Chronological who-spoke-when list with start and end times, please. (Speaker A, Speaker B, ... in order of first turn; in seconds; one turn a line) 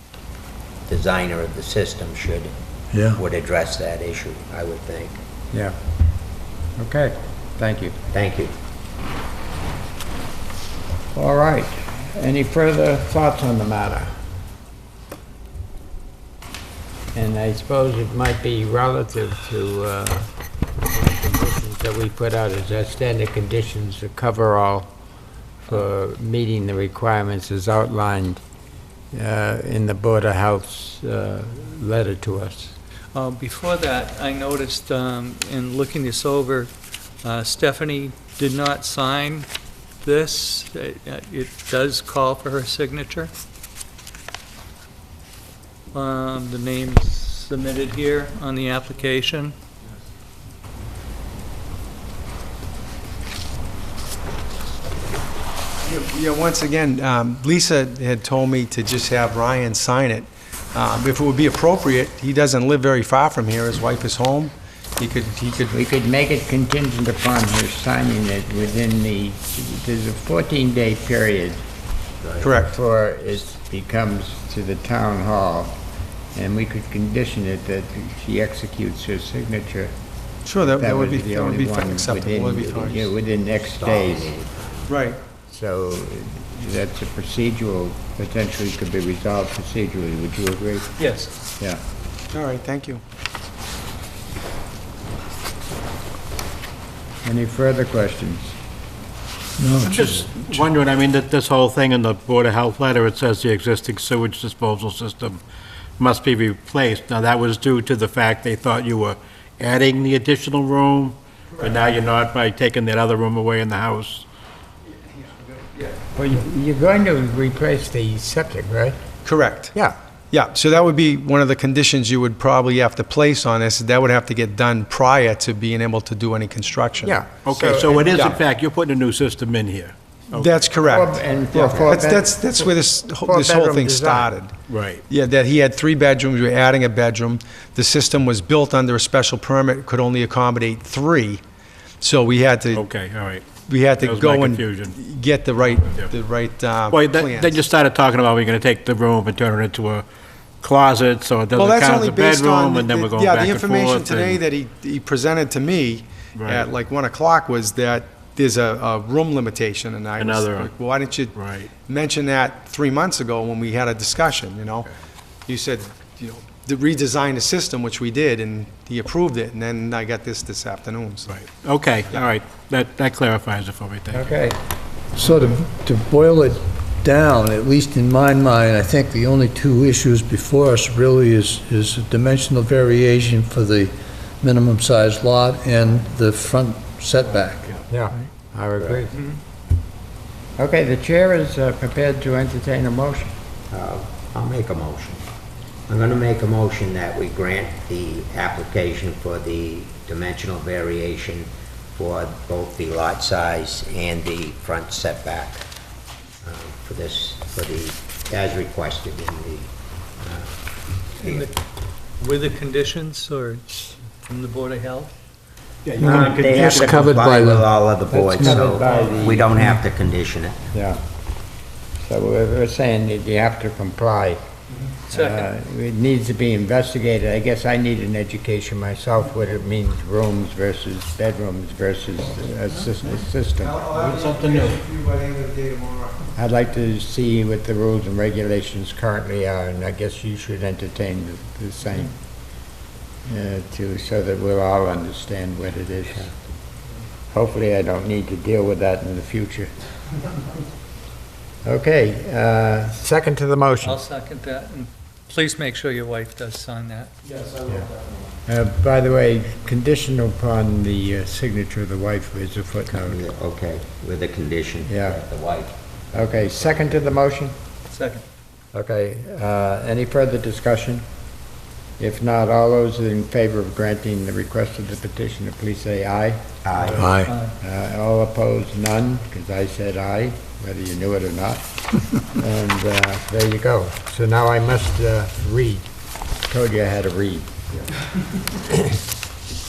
Speaker A: 0.9-2.5
Speaker B: 2.9-3.2
Speaker A: 3.1-5.2
Speaker C: 6.8-8.0
Speaker A: 8.1-8.5
Speaker C: 11.1-14.1
Speaker C: 17.1-20.3
Speaker C: 20.9-24.9
Speaker C: 25.7-28.4
Speaker C: 29.1-32.8
Speaker D: 33.1-39.5
Speaker D: 40.0-43.3
Speaker D: 45.9-49.5
Speaker E: 55.8-65.8
Speaker C: 65.7-71.6
Speaker A: 72.2-72.6
Speaker E: 72.4-72.7
Speaker C: 72.7-75.7
Speaker C: 76.3-79.9
Speaker E: 80.4-83.1
Speaker C: 80.6-84.3
Speaker A: 83.7-85.0
Speaker E: 84.9-85.2
Speaker C: 85.5-91.0
Speaker D: 91.0-91.3
Speaker E: 92.3-93.0
Speaker C: 97.2-98.5
Speaker B: 99.6-100.4
Speaker F: 99.9-105.4
Speaker F: 106.0-114.2
Speaker E: 115.1-116.0
Speaker C: 116.1-119.0
Speaker E: 119.2-119.7
Speaker E: 120.3-127.2
Speaker C: 127.0-128.3
Speaker F: 127.5-130.8
Speaker E: 128.1-128.4
Speaker E: 130.3-134.5
Speaker C: 130.8-134.3
Speaker A: 131.6-132.0
Speaker F: 134.7-135.0
Speaker E: 135.1-141.4
Speaker E: 142.0-142.9
Speaker F: 142.7-145.0
Speaker E: 143.7-147.6
Speaker F: 146.9-150.1
Speaker F: 150.6-154.4
Speaker E: 151.6-164.9
Speaker F: 156.3-156.7
Speaker F: 160.2-160.8
Speaker F: 161.3-161.7
Speaker E: 165.5-171.4
Speaker F: 171.3-174.4
Speaker C: 174.1-174.6
Speaker B: 175.1-187.8
Speaker C: 187.9-189.2
Speaker C: 190.6-193.3
Speaker A: 193.7-195.2
Speaker A: 195.9-205.7
Speaker A: 206.4-210.6
Speaker A: 211.2-211.4
Speaker D: 211.2-211.5
Speaker D: 212.2-215.1
Speaker F: 215.9-217.1
Speaker B: 216.0-218.7
Speaker A: 216.0-220.7
Speaker C: 218.1-219.5
Speaker C: 220.7-221.0
Speaker C: 222.0-224.4
Speaker C: 225.1-233.8
Speaker D: 225.1-225.5
Speaker E: 233.6-236.3
Speaker F: 234.0-234.8
Speaker C: 236.3-242.1
Speaker C: 243.3-246.3
Speaker C: 247.3-249.7
Speaker C: 251.7-254.0
Speaker D: 253.8-257.3
Speaker C: 258.4-263.2
Speaker A: 262.9-266.8
Speaker C: 264.8-265.2
Speaker C: 266.1-267.6
Speaker D: 267.9-268.2
Speaker C: 268.7-271.0
Speaker C: 272.0-281.6
Speaker A: 276.6-277.1
Speaker B: 276.9-277.3
Speaker D: 277.2-277.5
Speaker C: 282.2-285.9
Speaker C: 286.5-287.5